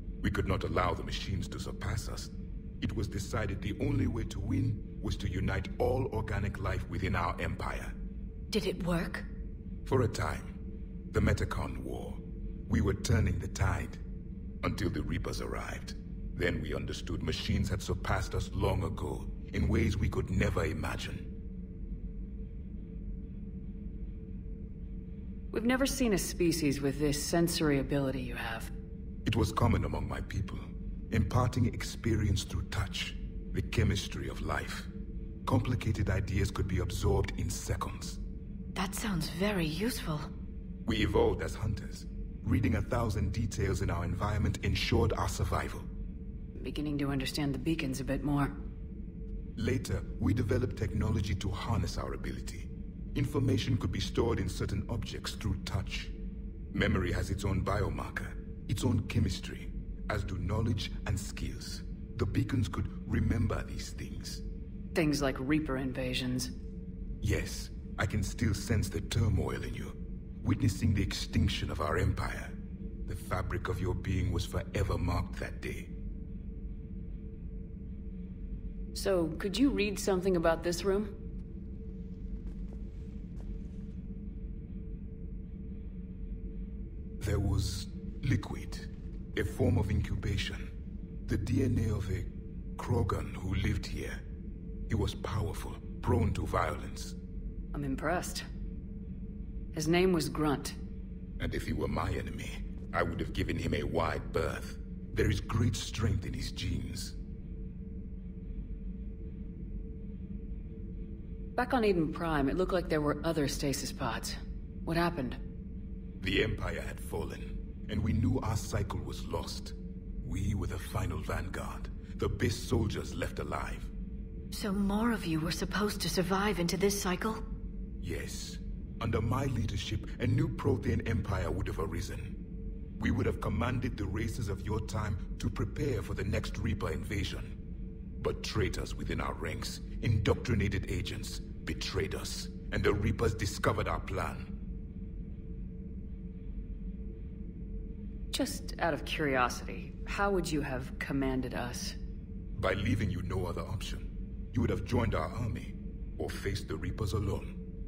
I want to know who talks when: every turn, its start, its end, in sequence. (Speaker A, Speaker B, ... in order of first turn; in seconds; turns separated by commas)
Speaker A: 0.2-7.9, Speaker B: 8.5-9.3, Speaker A: 9.8-10.5, Speaker A: 11.1-14.0, Speaker A: 14.6-21.3, Speaker C: 25.5-28.7, Speaker A: 29.2-34.9, Speaker A: 35.5-38.2, Speaker B: 38.7-40.3, Speaker A: 40.8-45.9, Speaker C: 46.6-48.5, Speaker A: 49.6-56.1, Speaker A: 56.7-64.4, Speaker C: 64.9-66.5, Speaker A: 67.2-72.5, Speaker A: 73.1-75.9, Speaker C: 78.9-81.1, Speaker A: 87.2-90.7, Speaker A: 91.2-94.2, Speaker A: 94.9-97.2, Speaker C: 97.7-98.4, Speaker C: 99.7-100.8, Speaker A: 101.4-107.2, Speaker C: 111.6-115.4, Speaker A: 116.2-123.9, Speaker B: 124.5-127.4, Speaker A: 128.0-132.4, Speaker A: 133.0-137.6, Speaker A: 138.2-144.5, Speaker C: 148.3-151.9, Speaker A: 152.6-157.6